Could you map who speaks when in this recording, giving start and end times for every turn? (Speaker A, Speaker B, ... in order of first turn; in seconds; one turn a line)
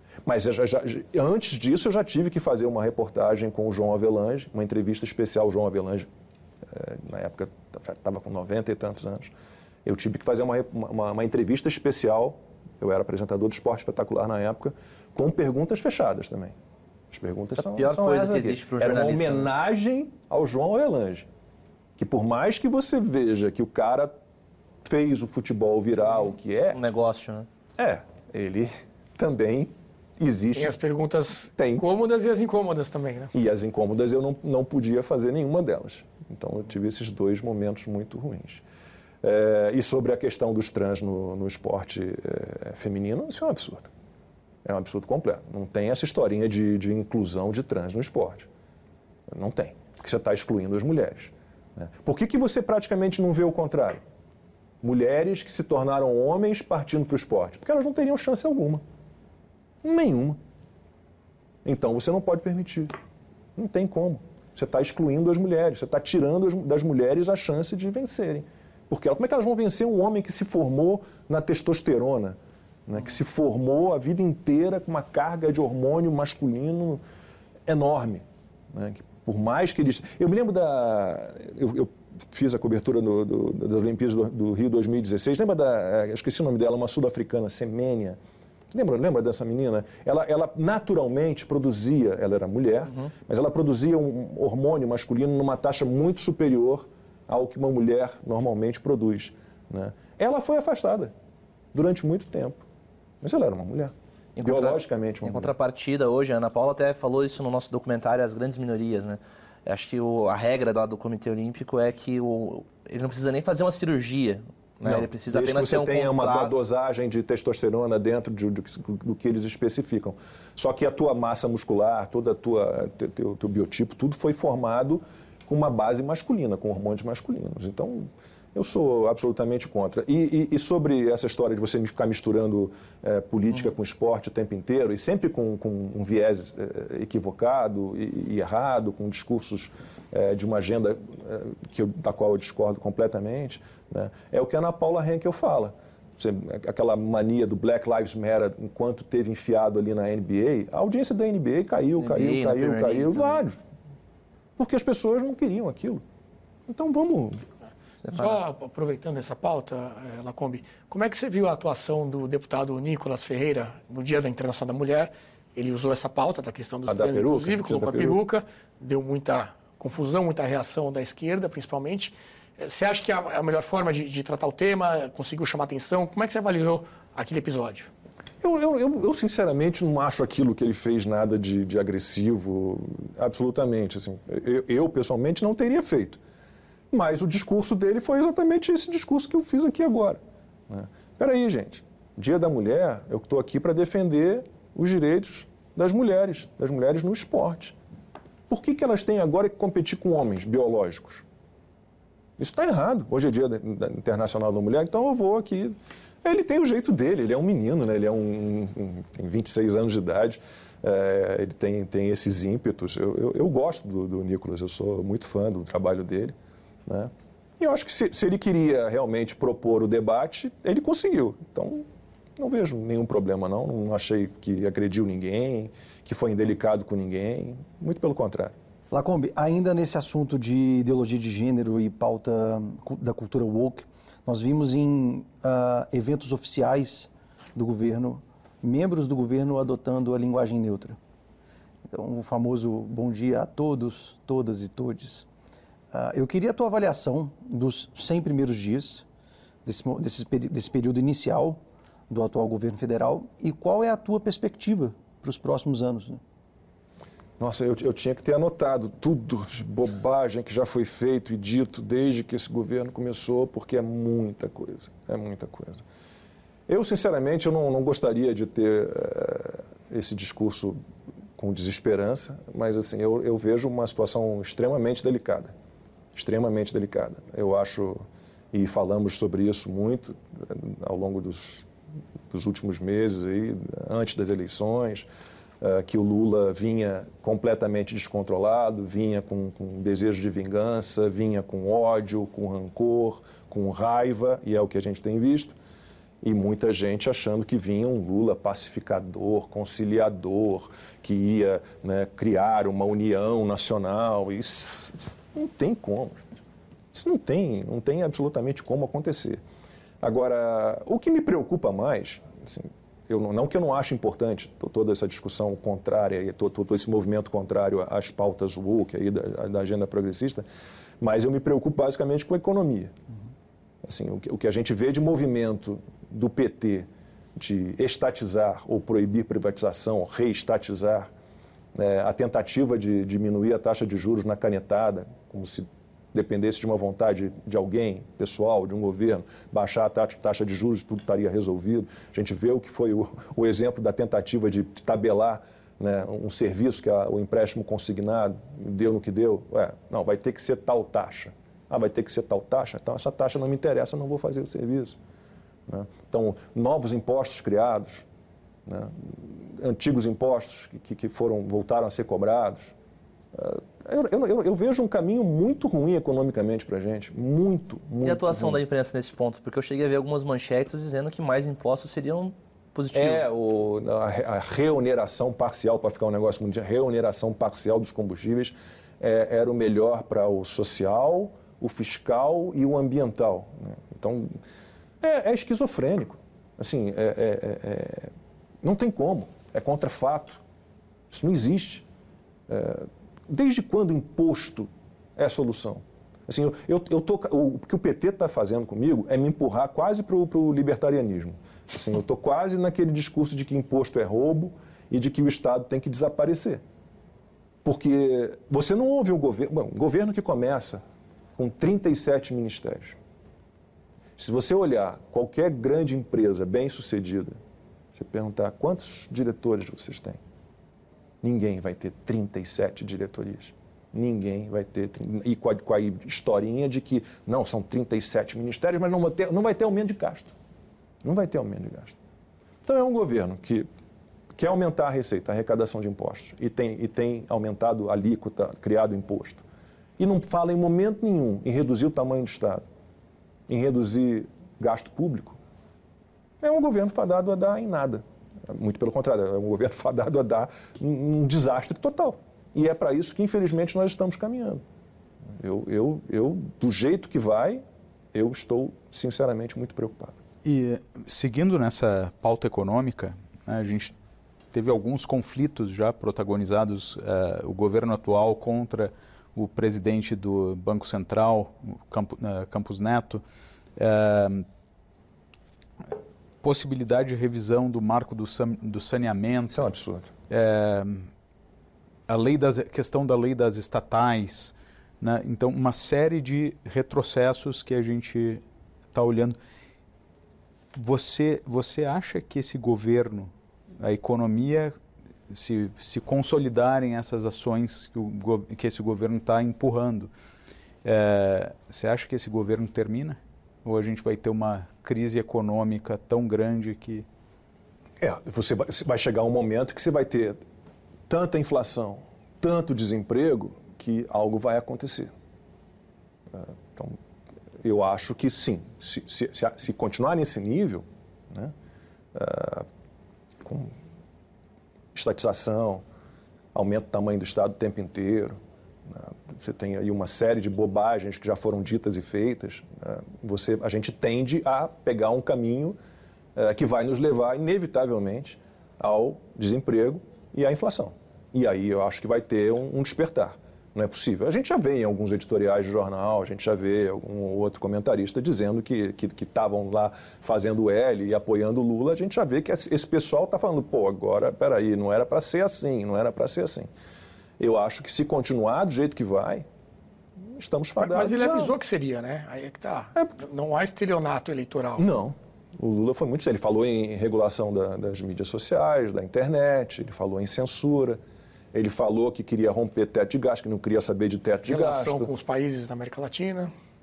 Speaker A: 0.2-6.1
Speaker A: 6.7-9.3
Speaker A: 9.8-16.6
Speaker A: 17.1-21.3
Speaker B: 17.6-19.5
Speaker A: 22.0-24.1
Speaker A: 24.8-26.8
Speaker B: 26.7-27.5
Speaker A: 27.8-30.8
Speaker C: 30.5-33.3
Speaker A: 31.6-31.8
Speaker A: 33.3-38.6
Speaker A: 39.2-43.9
Speaker A: 44.6-48.5
Speaker A: 49.3-54.0
Speaker A: 54.8-58.8
Speaker A: 59.8-60.4
Speaker A: 61.6-62.9
Speaker A: 63.5-77.0
Speaker A: 77.7-88.2
Speaker A: 88.7-101.1
Speaker A: 101.7-102.6
Speaker A: 103.2-105.5
Speaker B: 104.3-116.5
Speaker A: 114.8-153.6
Speaker B: 152.0-153.4
Speaker A: 154.6-156.0
Speaker A: 156.7-157.4
Speaker B: 158.0-158.4
Speaker C: 158.1-177.9
Speaker A: 166.9-168.2
Speaker A: 178.4-186.2
Speaker A: 186.9-197.8
Speaker A: 198.5-201.2
Speaker A: 202.4-216.3
Speaker A: 216.8-221.8
Speaker A: 222.4-228.5
Speaker D: 228.9-241.0
Speaker D: 241.9-245.2
Speaker D: 245.9-249.0
Speaker D: 249.6-256.2
Speaker A: 257.4-265.8
Speaker A: 266.7-270.8
Speaker A: 271.4-275.5
Speaker A: 276.1-281.6
Speaker A: 282.3-285.1
Speaker A: 285.6-295.6
Speaker A: 296.2-306.2
Speaker A: 306.9-309.4
Speaker A: 310.0-320.4
Speaker A: 321.0-323.0
Speaker A: 323.8-331.1
Speaker A: 331.7-355.0
Speaker A: 355.7-358.0
Speaker A: 358.6-362.7
Speaker A: 363.3-368.6
Speaker B: 368.0-373.2
Speaker A: 372.9-384.4
Speaker A: 385.0-390.4
Speaker A: 391.1-391.8
Speaker A: 392.5-406.6
Speaker A: 407.6-410.8
Speaker A: 411.4-413.0
Speaker A: 414.2-417.4
Speaker A: 417.9-420.2
Speaker A: 421.2-430.3
Speaker A: 431.0-431.9
Speaker A: 432.6-433.7
Speaker A: 434.3-439.4
Speaker A: 440.0-442.6
Speaker A: 443.5-445.4
Speaker A: 446.4-454.6
Speaker A: 455.4-460.2
Speaker E: 460.4-463.9
Speaker E: 464.5-473.2
Speaker E: 473.8-474.4
Speaker E: 476.4-479.6
Speaker A: 479.5-480.1
Speaker E: 480.3-481.1
Speaker E: 482.1-489.4
Speaker E: 490.7-494.8
Speaker E: 495.3-500.1
Speaker E: 500.8-507.0
Speaker A: 508.0-510.4
Speaker A: 511.1-515.1
Speaker A: 516.3-517.0
Speaker A: 517.6-521.5
Speaker A: 522.1-522.7
Speaker A: 523.4-523.7
Speaker A: 524.9-525.8
Speaker A: 526.5-535.8
Speaker A: 536.4-556.7
Speaker A: 557.4-559.5
Speaker A: 560.2-561.5
Speaker C: 560.8-564.9
Speaker A: 564.8-571.0
Speaker A: 571.5-575.1
Speaker C: 574.5-576.5